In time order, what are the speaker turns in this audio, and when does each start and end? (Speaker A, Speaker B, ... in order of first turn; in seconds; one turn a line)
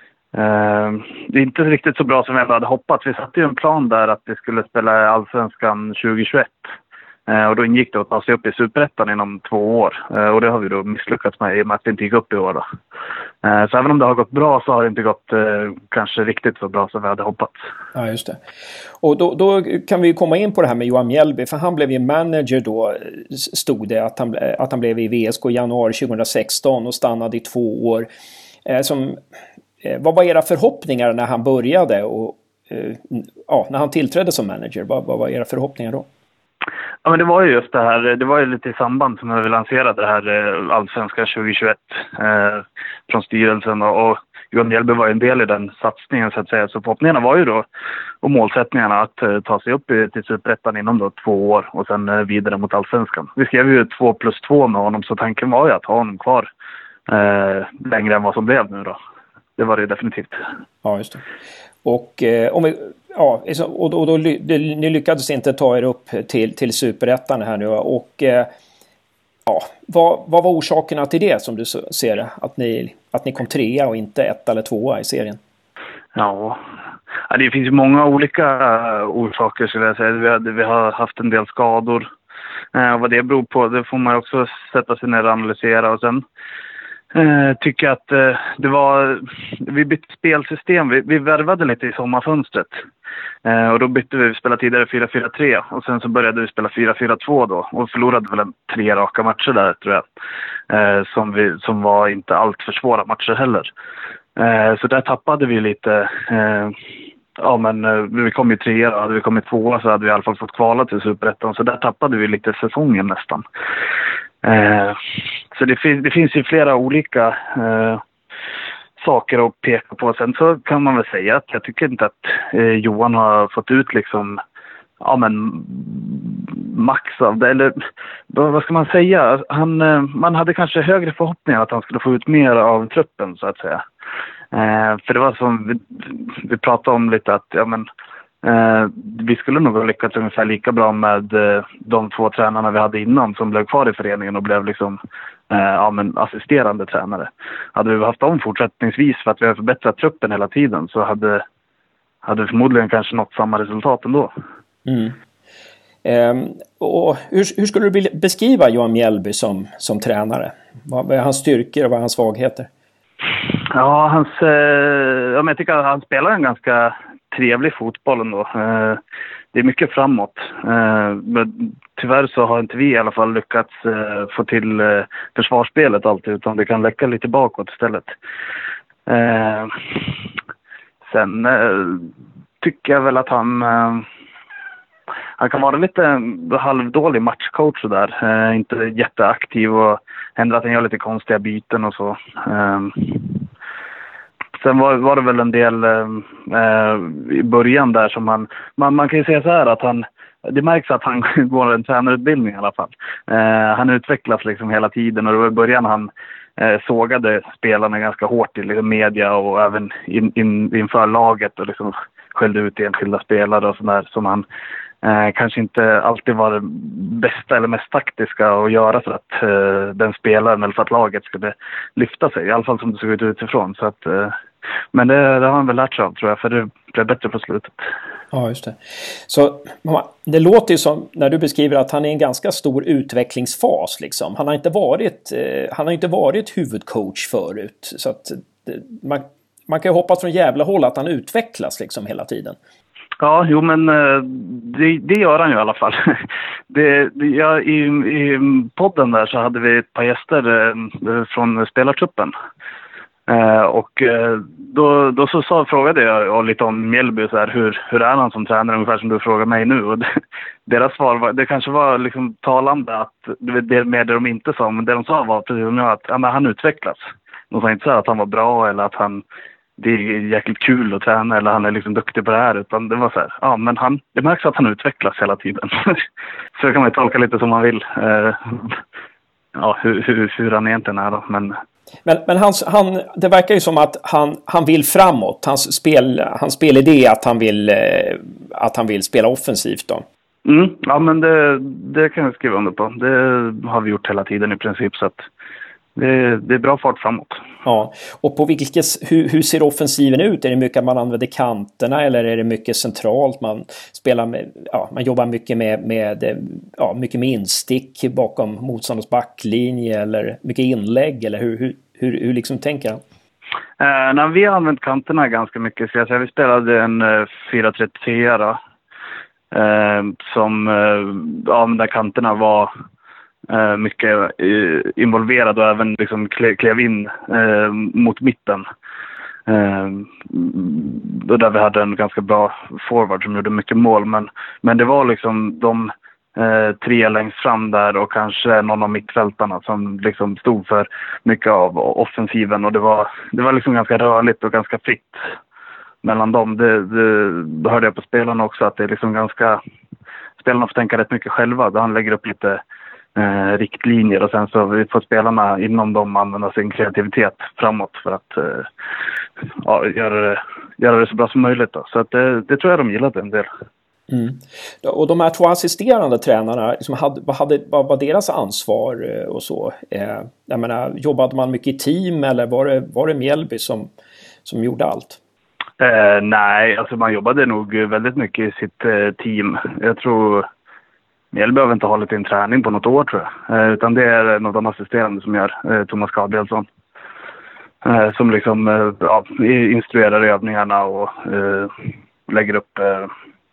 Speaker A: 0.3-6.7
Speaker A: 7.3-12.6
Speaker A: 13.4-17.6
Speaker B: 17.9-28.1
Speaker B: 28.6-29.2
Speaker B: 29.8-36.1
Speaker A: 37.0-47.6
Speaker A: 48.2-56.5
Speaker A: 57.1-59.0
Speaker A: 59.6-60.4
Speaker B: 60.8-61.2
Speaker B: 61.8-68.5
Speaker B: 69.5-75.4
Speaker A: 76.2-76.6
Speaker A: 77.3-82.0
Speaker A: 82.7-86.2
Speaker A: 87.1-92.8
Speaker A: 93.4-100.0
Speaker A: 100.7-103.7
Speaker A: 104.3-106.8
Speaker A: 107.4-113.4
Speaker A: 114.4-115.0
Speaker A: 115.5-118.0
Speaker A: 119.0-124.4
Speaker A: 125.0-127.7
Speaker A: 128.3-133.8
Speaker A: 134.5-137.8
Speaker A: 138.4-145.0
Speaker A: 145.5-151.4
Speaker A: 152.2-154.3
Speaker B: 154.8-155.2
Speaker B: 156.0-162.7
Speaker A: 163.7-169.0
Speaker A: 169.5-178.1
Speaker A: 179.1-180.1
Speaker A: 181.0-182.1
Speaker A: 182.6-184.1
Speaker A: 185.4-193.4
Speaker A: 194.6-214.4
Speaker A: 215.0-224.4
Speaker A: 224.9-227.9
Speaker B: 228.3-242.6
Speaker A: 243.2-252.3
Speaker A: 253.3-260.1
Speaker A: 260.7-269.2
Speaker A: 269.8-276.0
Speaker A: 276.6-278.8
Speaker A: 279.5-281.6
Speaker B: 282.1-290.0
Speaker A: 290.4-295.2
Speaker A: 295.9-297.4
Speaker B: 297.6-313.0
Speaker A: 313.8-318.6
Speaker A: 319.5-322.7
Speaker A: 323.5-328.6
Speaker A: 329.5-345.2
Speaker A: 346.0-349.6
Speaker A: 350.4-352.6
Speaker A: 353.1-358.7
Speaker A: 359.6-363.5
Speaker B: 364.1-373.9
Speaker B: 374.4-375.2
Speaker A: 375.8-380.5
Speaker A: 381.3-386.6
Speaker A: 387.8-393.1